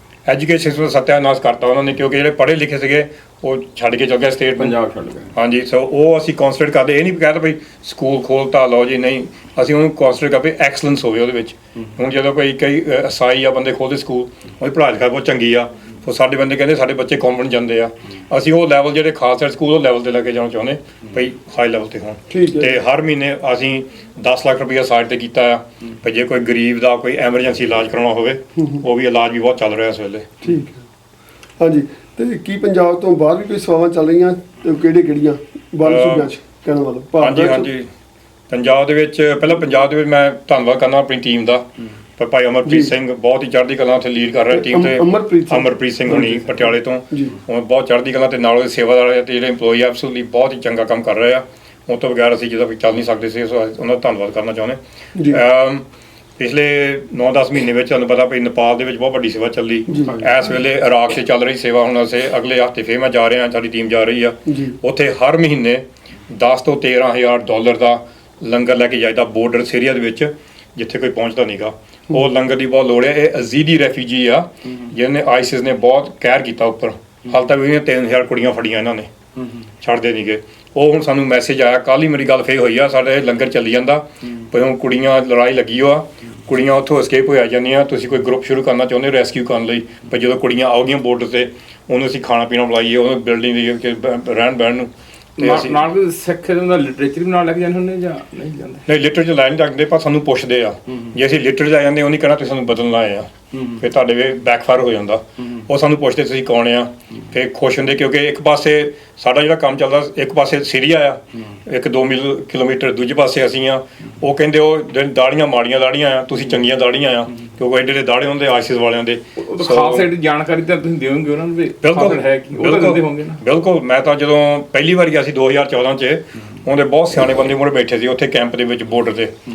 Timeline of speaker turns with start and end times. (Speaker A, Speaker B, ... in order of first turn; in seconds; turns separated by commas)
Speaker A: 0.2-4.8, Speaker B: 4.6-5.3, Speaker A: 5.3-30.4, Speaker C: 22.3-22.7, Speaker C: 30.4-30.8, Speaker C: 31.6-37.7, Speaker A: 35.8-36.3, Speaker A: 37.2-37.9, Speaker A: 38.5-55.8, Speaker C: 42.6-42.9, Speaker C: 44.5-46.6, Speaker C: 55.1-55.4, Speaker A: 56.4-79.1, Speaker C: 59.9-60.2, Speaker C: 64.5-64.8, Speaker A: 79.8-95.8, Speaker B: 95.4-98.8, Speaker A: 98.9-120.1, Speaker B: 103.5-103.8, Speaker B: 119.4-123.4, Speaker A: 121.8-129.3